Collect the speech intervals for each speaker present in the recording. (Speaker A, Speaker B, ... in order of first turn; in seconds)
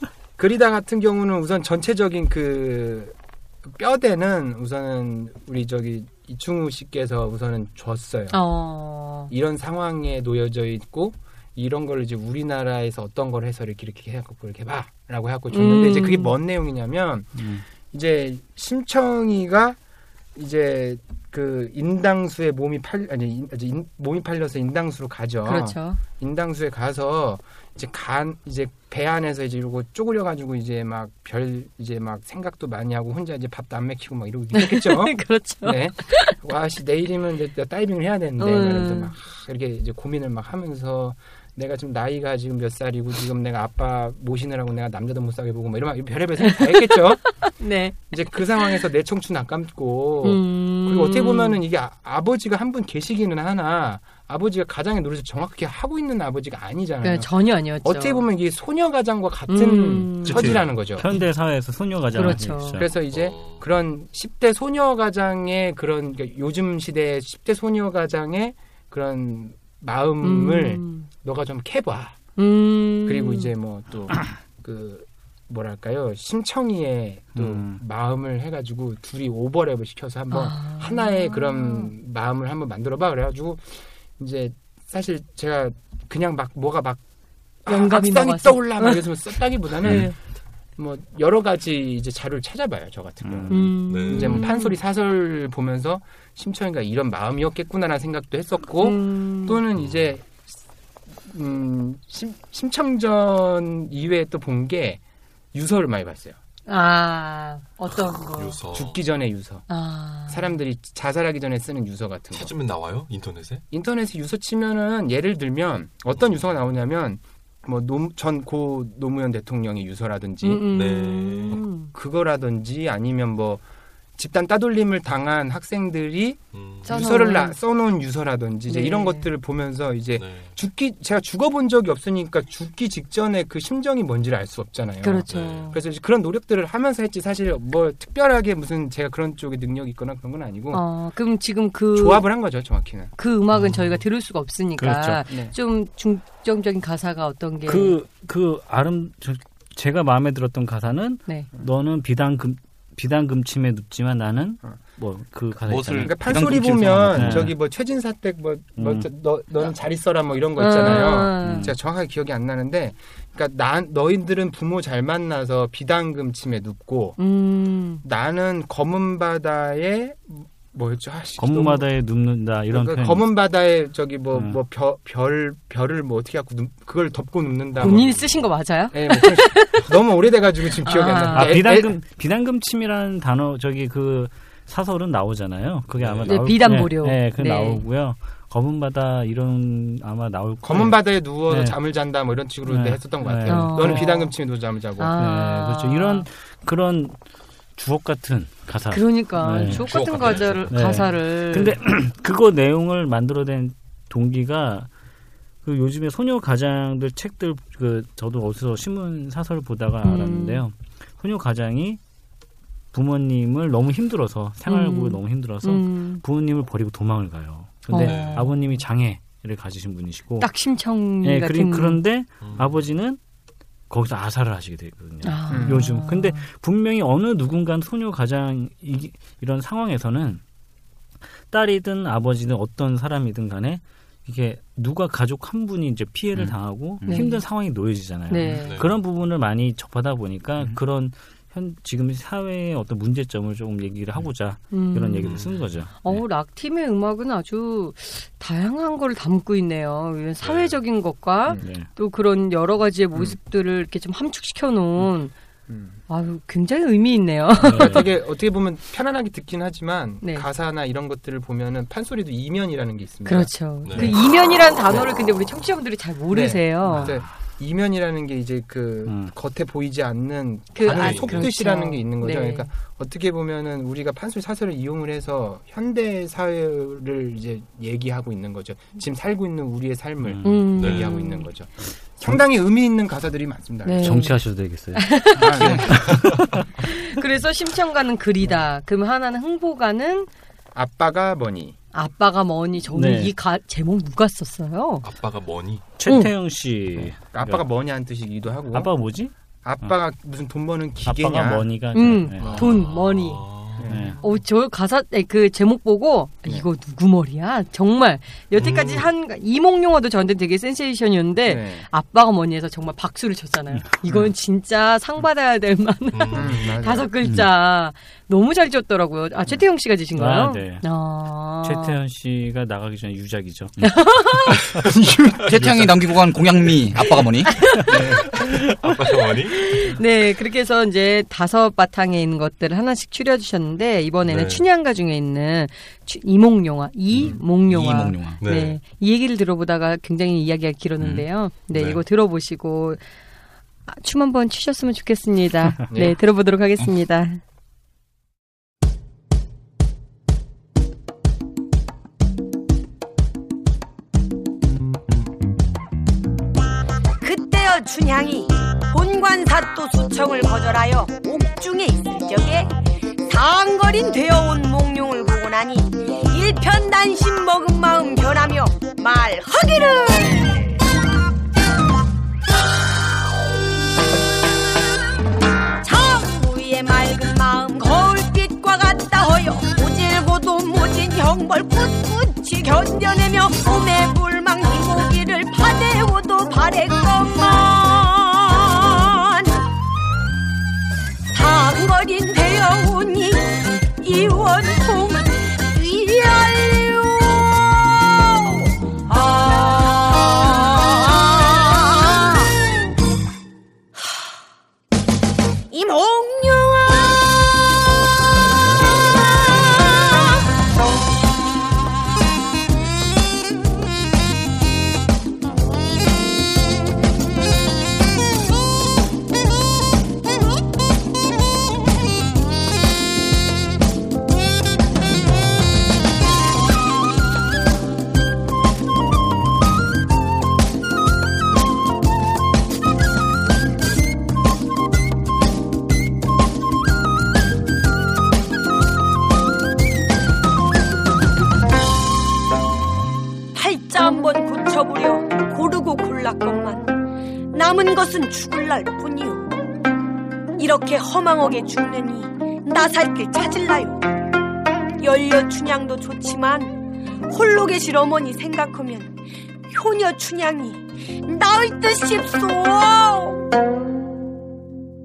Speaker A: 0.4-8.4, 9.3-19.8, 20.4-47.4, 48.1-61.1, 62.8-72.2, 73.0-87.0, 87.7-90.1, 90.8-100.4, 101.2-105.0, 105.5-106.4, 108.7-109.7, 110.3-112.5, 113.7-120.6, 121.5-123.6, 124.2-140.8, 141.9-143.1, 145.3-145.6, 156.0-167.2, 168.0-171.9, 172.7-178.1, 178.9-181.9, 190.6-195.2, 225.5-225.8, 255.7-256.0, 257.7-264.2, 266.3-284.3, 285.3-286.2, 290.8-291.8, 297.2-298.9, 299.6-302.7, 303.8-304.1, 311.4-311.9, 314.1-314.3, 316.3-317.1, 324.8-325.4, 345.9-346.2
Speaker B: 8.3-9.3, 15.5-16.4, 25.5-26.0, 34.5-36.4, 38.4-39.1, 46.5-48.0, 50.2-51.6, 57.0-58.2, 59.5-60.6, 62.1-62.9, 70.2-71.1, 72.4-73.5, 80.3-81.9, 87.7-89.0, 89.8-90.2, 93.5-94.8, 98.8-99.6, 106.7-108.6, 109.7-110.5, 120.4-121.9, 126.8-127.6, 128.7-129.2, 135.0-135.8, 140.7-142.3, 143.2-147.9, 160.6-161.7, 167.2-168.0, 177.8-179.9, 180.8-181.7, 186.3-187.8, 193.5-194.3, 195.0-196.2, 198.9-201.8, 210.0-210.6, 214.7-216.2, 217.9-218.6, 220.4-222.0, 225.2-226.4, 237.1-237.5, 238.3-238.8, 244.7-245.4, 246.0-255.3, 256.1-258.1, 263.2-267.2, 270.8-272.7, 280.4-281.5, 283.8-284.4, 284.9-286.0, 286.8-290.3, 291.9-295.1, 296.1-296.3, 301.9-303.6, 304.2-322.0, 323.8-324.7, 327.6-343.0, 343.9-347.4
Speaker C: 17.4-17.6, 60.2-62.9, 77.3-77.8, 93.2-93.7, 144.8-145.2, 147.7-156.2, 157.1-157.5, 158.8-159.1, 161.4-161.7, 171.4-173.3, 174.3-174.6, 181.3-191.8, 192.7-194.1, 195.2-197.2, 197.8-199.9, 200.7-204.9, 205.6-212.0, 212.9-220.5, 221.2-223.2, 223.9-230.4, 231.5-246.1, 251.6-251.9, 257.6-258.1, 269.1-269.3, 280.2-280.7, 284.0-285.1, 285.9-286.6, 292.9-293.3, 296.0-297.6, 298.7-299.9, 301.1-302.6, 303.9-304.2, 320.1-320.8, 321.6-323.8
Speaker D: 63.1-63.6, 93.9-94.5, 108.2-109.0, 112.3-113.6, 120.7-121.6, 126.5-127.0, 130.2-130.5, 135.3-135.8, 143.6-143.9, 177.8-178.5, 186.0-186.4, 200.1-200.7, 218.0-218.5, 222.4-222.8, 238.5-239.0, 245.2-245.7, 250.4-250.8, 263.9-264.2, 270.9-271.5, 280.8-281.1, 286.1-286.6, 295.0-295.9, 302.4-303.9, 308.6-309.1, 316.1-316.8, 325.5-325.9, 327.9-329.9, 334.2-334.6, 338.4-338.8, 341.0-342.0
Speaker E: 155.7-157.5, 199.8-200.7, 236.3-237.2, 285.6-285.9, 317.2-317.5, 325.4-327.6, 337.7-338.4
Speaker F: 357.2-370.8, 375.8-389.6, 391.3-402.6, 405.7-407.4, 409.3-410.3, 443.5-446.9, 447.5-449.5, 450.6-454.1, 455.0-459.2, 459.7-463.5